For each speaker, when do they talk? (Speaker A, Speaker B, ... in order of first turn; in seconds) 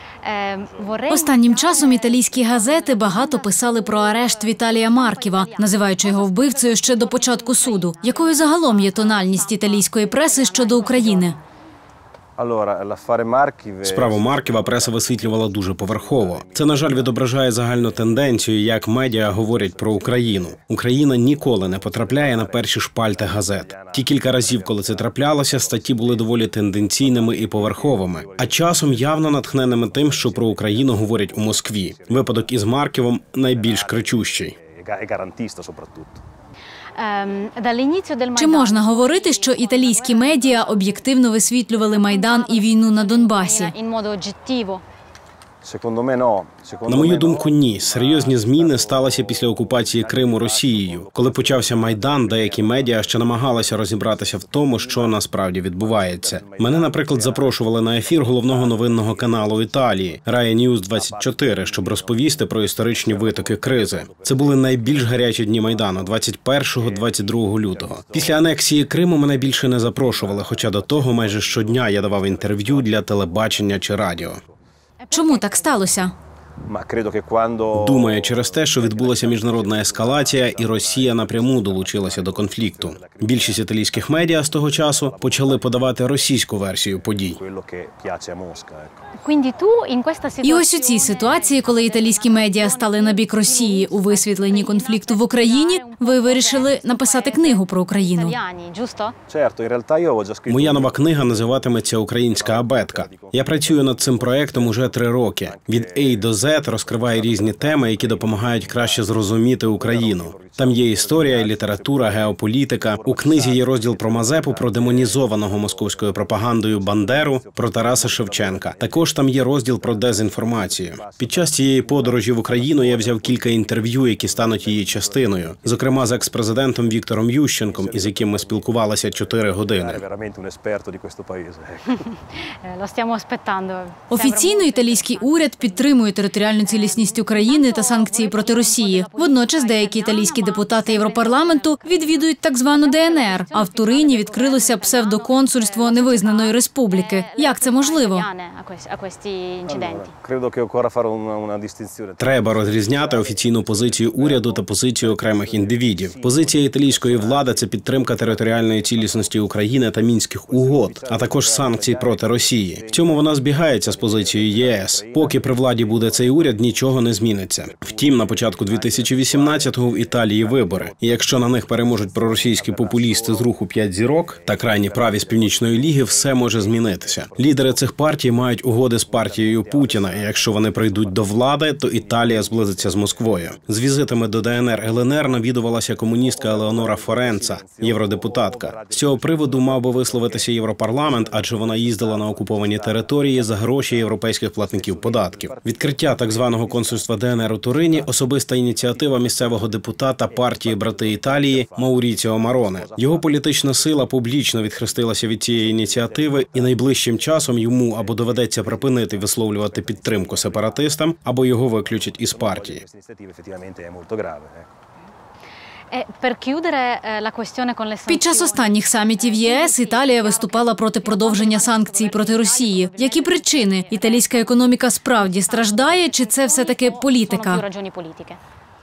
Speaker A: 0.2-11.4, 37.0-41.2, 41.7-44.8, 75.0-76.0, 89.2-99.1, 131.9-136.1, 136.6-150.1, 215.9-228.4
Speaker B: 1.1-11.4, 38.3-43.7, 75.1-76.1, 90.4-98.3, 134.1-148.2, 218.1-227.6
Speaker C: 12.4-17.2, 17.8-18.2, 19.3-20.6, 21.3-32.8, 33.5-36.2, 45.6-60.2, 60.9-68.5, 69.4-73.9, 76.6-85.7, 87.3-88.9, 99.3-126.3, 127.6-132.1, 149.7-159.5, 160.4-167.0, 167.6-173.6, 174.3-177.9, 178.9-181.3, 181.9-183.6, 184.7-197.1, 197.7-204.1, 205.5-210.9, 211.8-214.7
Speaker D: 13.8-34.5, 46.9-74.4, 77.7-87.4, 100.5-130.0, 152.2-212.8